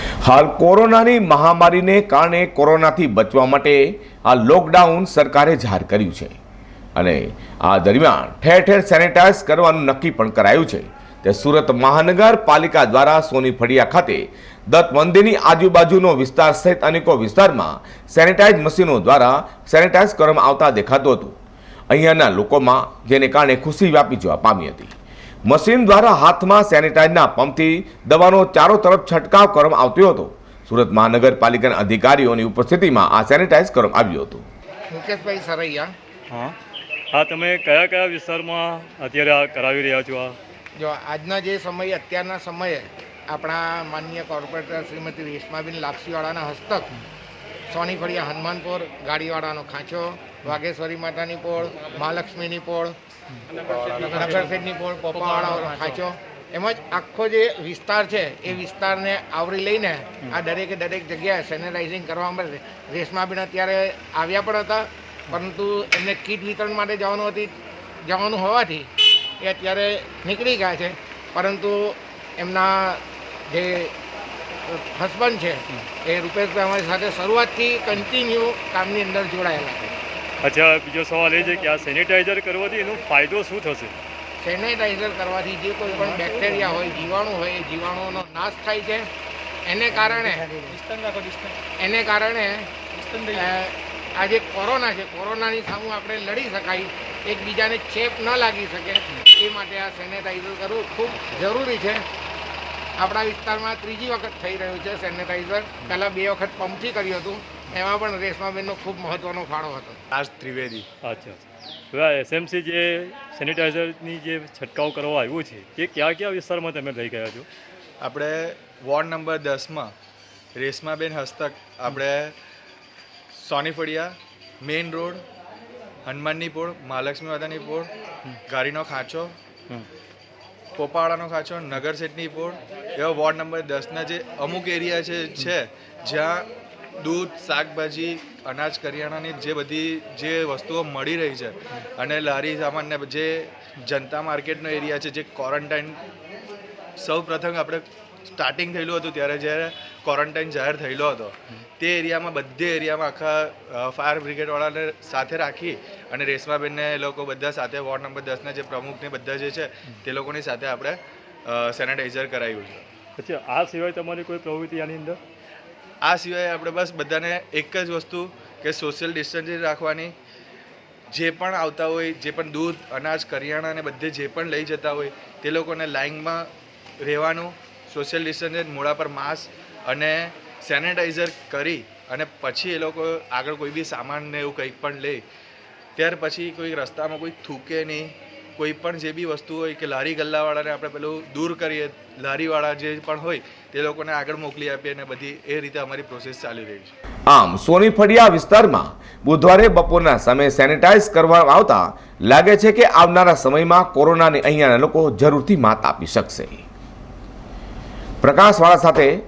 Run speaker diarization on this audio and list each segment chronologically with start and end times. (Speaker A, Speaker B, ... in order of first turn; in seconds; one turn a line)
Speaker A: 0.2-6.3
Speaker A: 7.0-21.4
Speaker A: 21.9-24.9
Speaker A: 25.4-34.5
Speaker B: 34.9-35.9
Speaker C: 36.3-36.5
Speaker C: 37.1-40.4
Speaker B: 40.8-46.9
Speaker B: 47.7-52.9
Speaker B: 53.9-68.9
Speaker B: 69.4-73.9
Speaker B: 74.7-80.0
Speaker C: 80.4-83.9
Speaker B: 84.4-89.1
Speaker B: 89.7-90.5
Speaker B: 91.8-92.7
Speaker B: 93.3-102.0
Speaker B: 103.0-110.0
Speaker D: 110.1-110.9
Speaker C: 111.0-117.4
Speaker D: 118.0-119.9
Speaker D: 120.5-122.3
Speaker D: 123.3-125.2
Speaker D: 126.0-127.9
Speaker D: 128.5-129.3
Speaker D: 130.8-136.5
Speaker D: 137.0-146.0
Speaker D: 147.0-162.8
Speaker C: 163.2-165.2
Speaker D: 166.0-170.1
Speaker D: 171.1-176.5
Speaker D: 177.0-185.2
Speaker D: 185.9-196.9
Speaker A: 197.3-206.6
Speaker A: 208.2-209.1